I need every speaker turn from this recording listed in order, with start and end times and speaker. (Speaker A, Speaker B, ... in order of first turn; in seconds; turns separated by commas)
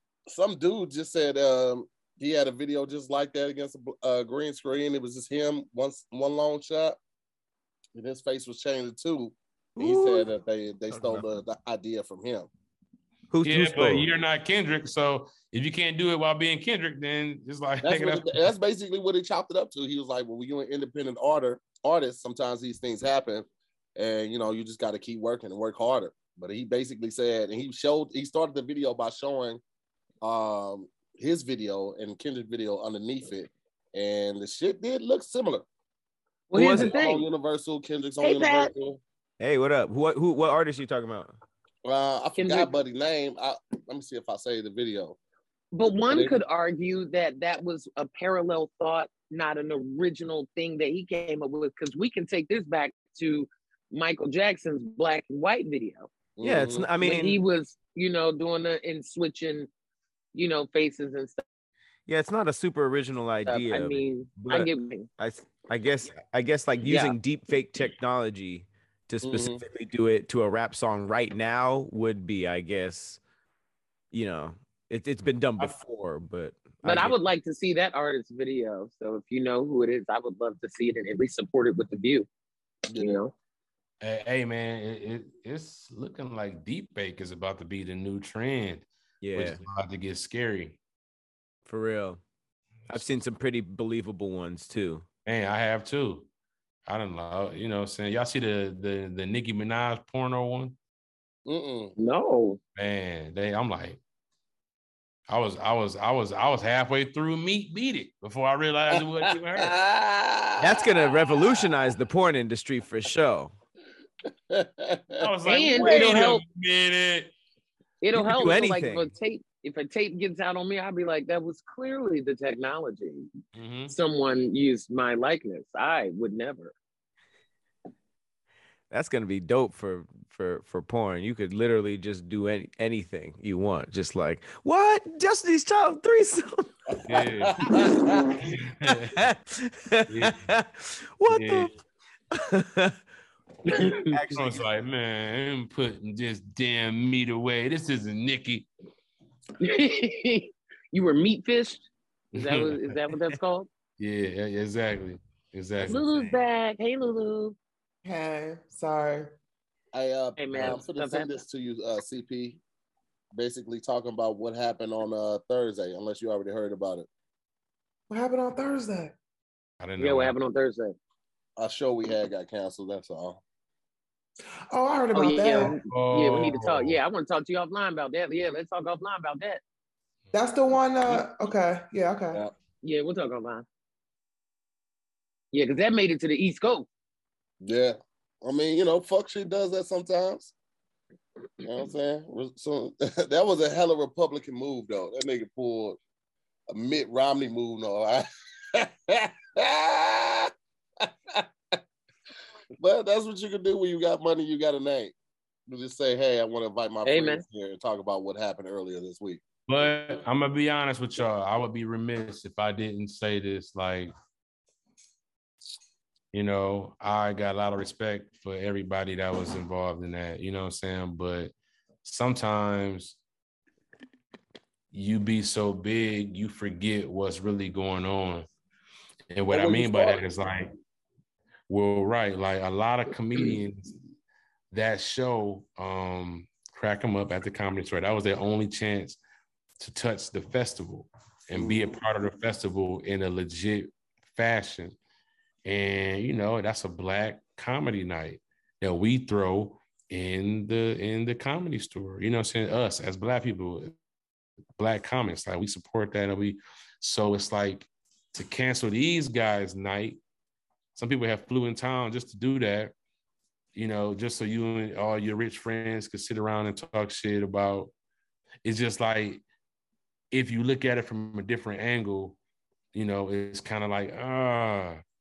Speaker A: 0.3-7.0, Speaker A: 8.0-12.5, Speaker B: 9.8-10.3, Speaker B: 10.9-11.2, Speaker B: 13.3-14.1, Speaker C: 13.4-18.5, Speaker A: 17.8-29.6, Speaker A: 30.2-35.7, Speaker D: 36.5-37.3, Speaker B: 36.5-36.9, Speaker A: 36.6-39.0, Speaker D: 38.2-38.7, Speaker B: 39.4-41.3, Speaker A: 41.9-45.2, Speaker D: 42.4-42.7, Speaker D: 45.7-56.1, Speaker A: 46.1-46.4, Speaker A: 56.4-56.9, Speaker B: 56.4-57.4, Speaker D: 57.0-59.7, Speaker D: 60.3-61.4, Speaker B: 62.1-73.2, Speaker D: 63.5-65.1, Speaker D: 66.8-67.2, Speaker A: 69.2-69.6, Speaker B: 74.1-77.2, Speaker D: 76.8-82.3, Speaker A: 82.9-83.2, Speaker D: 83.0-83.3, Speaker C: 84.0-90.8, Speaker B: 89.2-89.6, Speaker B: 91.7-92.2, Speaker B: 92.9-95.1, Speaker C: 95.3-96.3, Speaker C: 96.9-100.8, Speaker A: 101.5-101.9, Speaker D: 102.0-102.6, Speaker C: 102.8-104.0, Speaker C: 105.3-109.8, Speaker A: 108.9-111.7, Speaker B: 110.6-113.5, Speaker A: 114.5-115.3, Speaker C: 115.2-117.3, Speaker D: 115.5-116.4, Speaker D: 118.0-123.3, Speaker B: 118.1-119.1, Speaker C: 123.5-123.9, Speaker D: 123.9-126.8, Speaker B: 128.9-136.7, Speaker C: 137.1-139.2, Speaker A: 137.2-138.3, Speaker B: 137.7-138.1, Speaker B: 138.9-141.7, Speaker C: 140.1-140.4, Speaker C: 141.3-141.8, Speaker B: 142.3-143.0, Speaker D: 143.7-144.0, Speaker B: 143.8-144.7, Speaker C: 144.3-148.7, Speaker D: 149.6-151.8, Speaker C: 152.3-153.3, Speaker D: 152.4-153.7, Speaker C: 154.0-156.2, Speaker B: 155.8-156.4, Speaker D: 155.9-157.6, Speaker E: 158.1-159.3, Speaker A: 159.9-162.6, Speaker D: 160.4-161.4, Speaker A: 163.3-167.1, Speaker E: 168.1-169.1, Speaker C: 169.8-170.3, Speaker D: 170.0-171.0, Speaker A: 171.6-173.4, Speaker E: 174.7-175.8, Speaker D: 175.1-179.6, Speaker C: 175.9-177.0, Speaker E: 180.3-182.4, Speaker D: 182.8-183.7, Speaker D: 185.5-186.9, Speaker A: 187.6-190.5, Speaker A: 191.6-196.0, Speaker A: 196.7-201.8, Speaker A: 202.8-205.1, Speaker A: 205.7-209.4, Speaker D: 207.1-207.4, Speaker C: 209.7-214.1, Speaker C: 216.3-223.2, Speaker C: 224.9-228.5, Speaker C: 229.3-230.7, Speaker A: 229.5-230.2, Speaker C: 231.7-233.9, Speaker C: 234.7-239.2, Speaker C: 239.8-245.0, Speaker A: 241.6-241.9, Speaker C: 245.7-253.9, Speaker C: 254.8-260.2, Speaker C: 260.9-262.9, Speaker C: 263.8-267.9, Speaker C: 268.6-269.4, Speaker C: 270.3-272.4, Speaker C: 272.9-275.0